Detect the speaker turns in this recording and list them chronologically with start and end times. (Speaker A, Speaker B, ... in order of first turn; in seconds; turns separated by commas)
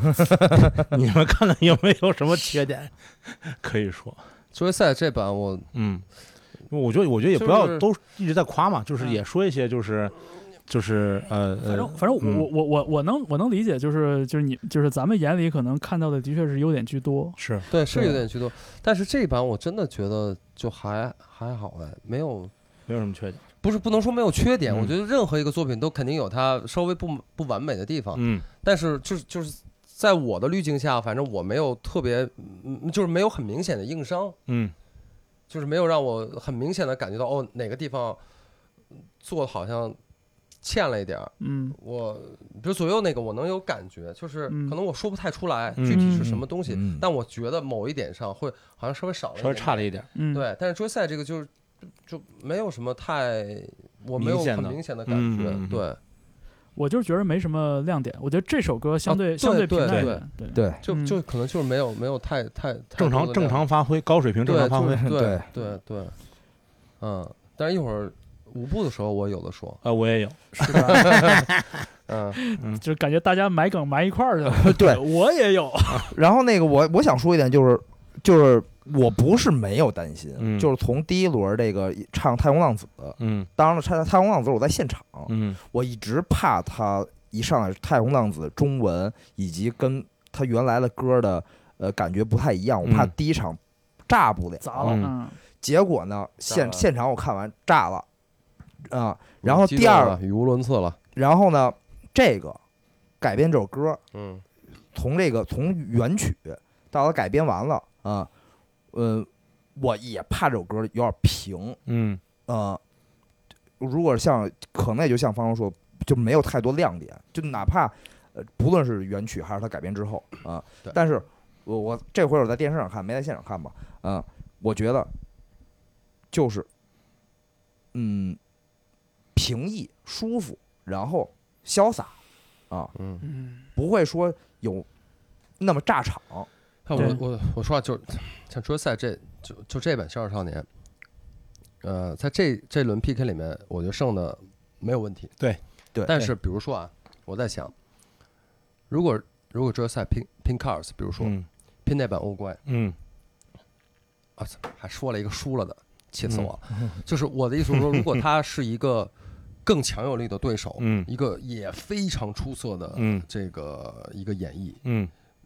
Speaker A: 0.8-4.2, Speaker B: 4.5-5.7, Speaker A: 5.7-6.1, Speaker A: 6.7-10.2, Speaker B: 7.3-7.9, Speaker A: 10.7-12.5, Speaker C: 11.6-17.4, Speaker A: 17.4-17.7, Speaker B: 17.7-22.5, Speaker A: 22.9-23.4, Speaker B: 23.6-34.4, Speaker A: 24.7-24.9, Speaker A: 28.1-28.4, Speaker A: 34.5-34.7, Speaker B: 35.5-38.2, Speaker B: 39.2-40.0, Speaker B: 40.6-51.5, Speaker C: 41.4-41.8, Speaker C: 44.5-44.8, Speaker A: 45.8-46.4, Speaker C: 45.9-46.3, Speaker D: 46.7-47.0, Speaker A: 49.4-50.1, Speaker C: 50.1-50.5, Speaker B: 52.0-56.0, Speaker A: 54.1-55.8, Speaker C: 56.8-61.2, Speaker B: 59.0-63.6, Speaker D: 60.5-60.8, Speaker A: 63.0-65.1, Speaker B: 64.4-66.2, Speaker D: 65.0-65.5, Speaker B: 67.0-69.8, Speaker A: 69.8-71.5, Speaker C: 70.5-71.1, Speaker B: 70.6-71.4, Speaker B: 72.1-72.4, Speaker C: 72.4-76.1, Speaker D: 74.6-75.0, Speaker D: 76.1-95.0, Speaker A: 80.4-80.7, Speaker A: 83.2-83.5, Speaker A: 85.3-85.6, Speaker A: 92.8-93.1, Speaker C: 94.6-95.4, Speaker A: 94.8-95.1, Speaker D: 95.6-98.0, Speaker B: 96.5-96.9, Speaker D: 98.9-100.2, Speaker B: 99.4-101.0, Speaker D: 101.1-102.6, Speaker D: 103.2-104.0, Speaker B: 104.1-104.4, Speaker D: 104.9-108.3, Speaker D: 108.9-111.8, Speaker A: 111.8-112.2, Speaker D: 112.5-112.8, Speaker D: 113.8-125.1, Speaker D: 126.3-126.7, Speaker D: 127.9-128.4, Speaker D: 129.3-132.2, Speaker B: 132.9-133.2, Speaker C: 133.2-133.7, Speaker D: 133.7-134.9, Speaker D: 135.6-136.5, Speaker B: 136.8-140.7, Speaker C: 136.9-137.2, Speaker B: 141.8-145.5, Speaker B: 146.0-147.7, Speaker B: 148.9-152.6, Speaker A: 151.2-151.4, Speaker A: 152.7-152.9, Speaker B: 154.4-159.1, Speaker A: 156.2-156.5, Speaker B: 159.6-164.8, Speaker A: 160.8-161.1, Speaker A: 162.9-163.2, Speaker A: 164.8-165.1